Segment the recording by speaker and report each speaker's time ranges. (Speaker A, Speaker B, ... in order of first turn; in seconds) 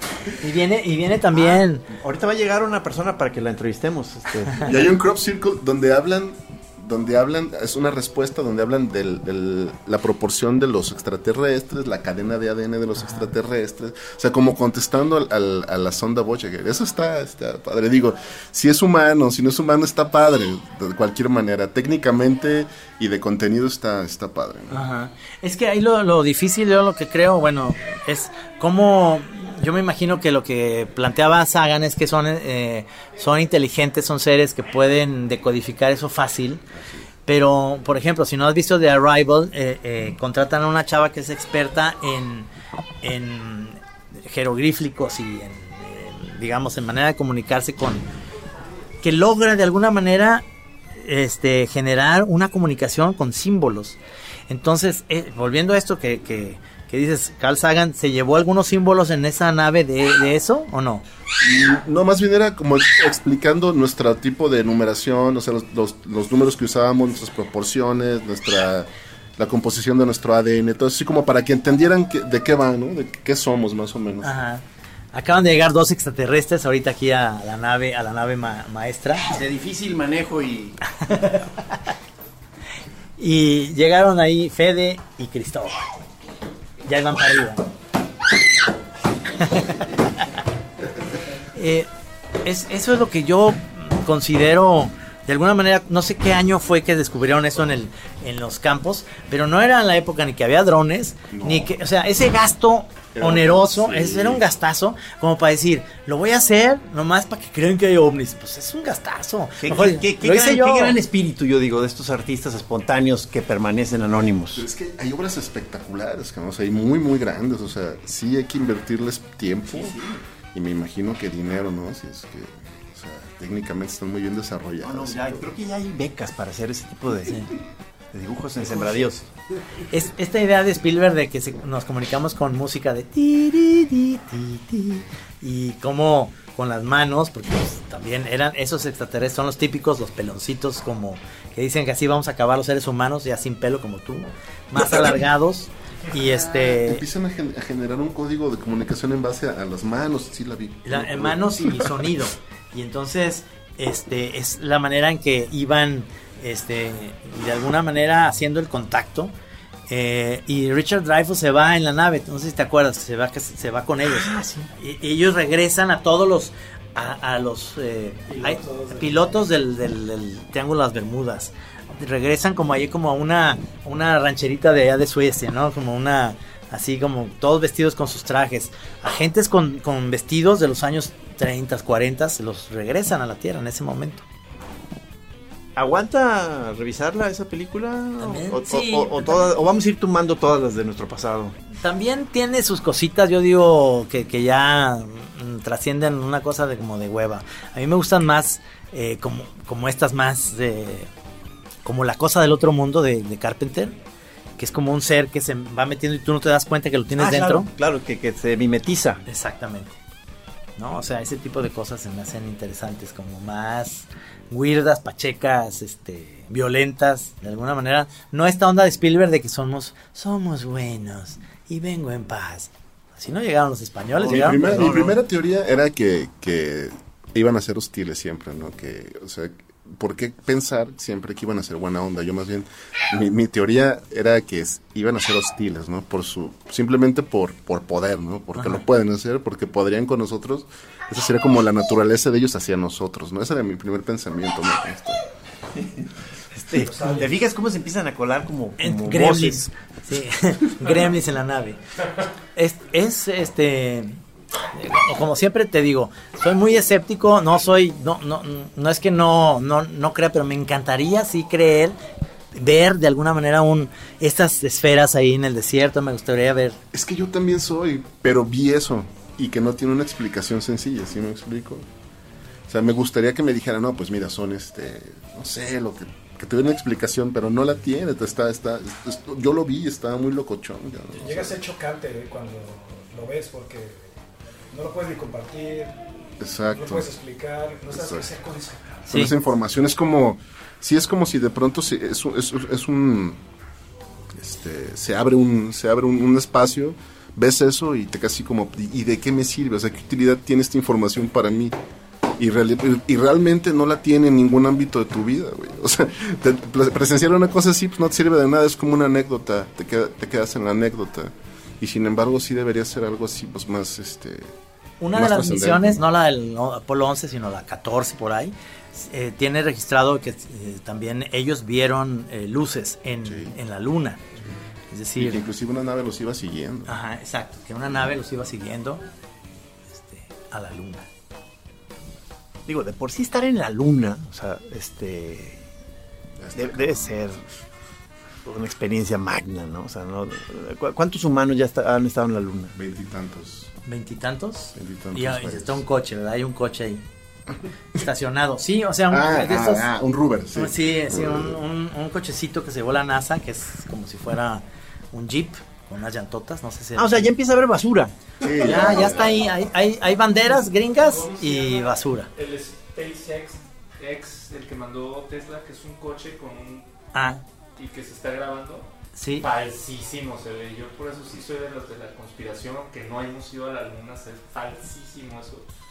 Speaker A: 0.4-1.9, 24.7-36.6, 37.3-42.5, 43.0-48.0, 49.0-50.4, 51.0-54.0, 54.5-61.0, 74.2-79.3, 81.1-81.5, 83.2-85.9, 86.8-87.6, 89.4-89.9, 91.5-91.9, 92.4-111.0, 129.9-147.0, 150.8-159.3, 159.9-184.2, 188.2-189.5, 191.8-201.1, 201.8-203.9, 204.6-207.7, 209.3-210.0, 210.8-225.1, 246.6-247.3, 248.8-251.8, 252.6-254.2, 254.7-262.0, 262.6-266.8, 315.0-324.2, 324.9-325.4, 326.9-329.0, 329.9-331.1, 343.9-347.0, 347.9-349.9, 350.5-357.3, 358.6-362.3, 367.1-367.4, 369.2-369.5
Speaker B: 1.3-4.8, 79.3-80.8, 109.6-114.7, 119.7-120.2, 124.8-127.5, 128.1-129.3, 164.1-164.7, 185.8-191.6, 207.2-209.2, 224.2-225.2, 245.8-246.1, 246.7-249.7, 332.7-335.6, 336.6-337.4, 338.4-342.7, 357.0-358.1
Speaker C: 4.6-24.8, 36.7-37.1, 61.4-74.3, 101.3-101.7, 103.2-104.5, 114.5-120.0, 120.5-125.5, 146.5-152.0, 224.2-245.2, 266.9-271.9, 272.7-281.6, 286.4-287.1, 287.9-288.3, 289.1-293.4, 294.4-301.8, 302.4-314.5, 315.1-316.0, 323.2-323.6, 325.2-327.0, 336.4-337.4, 342.8-343.7, 344.8-345.8, 349.1-351.6, 358.4-359.5
Speaker D: 168.3-169.2, 247.0-247.2, 281.2-284.1, 284.7-286.1, 286.7-289.1
Speaker E: 361.0-366.9, 367.8-368.9, 369.4-375.7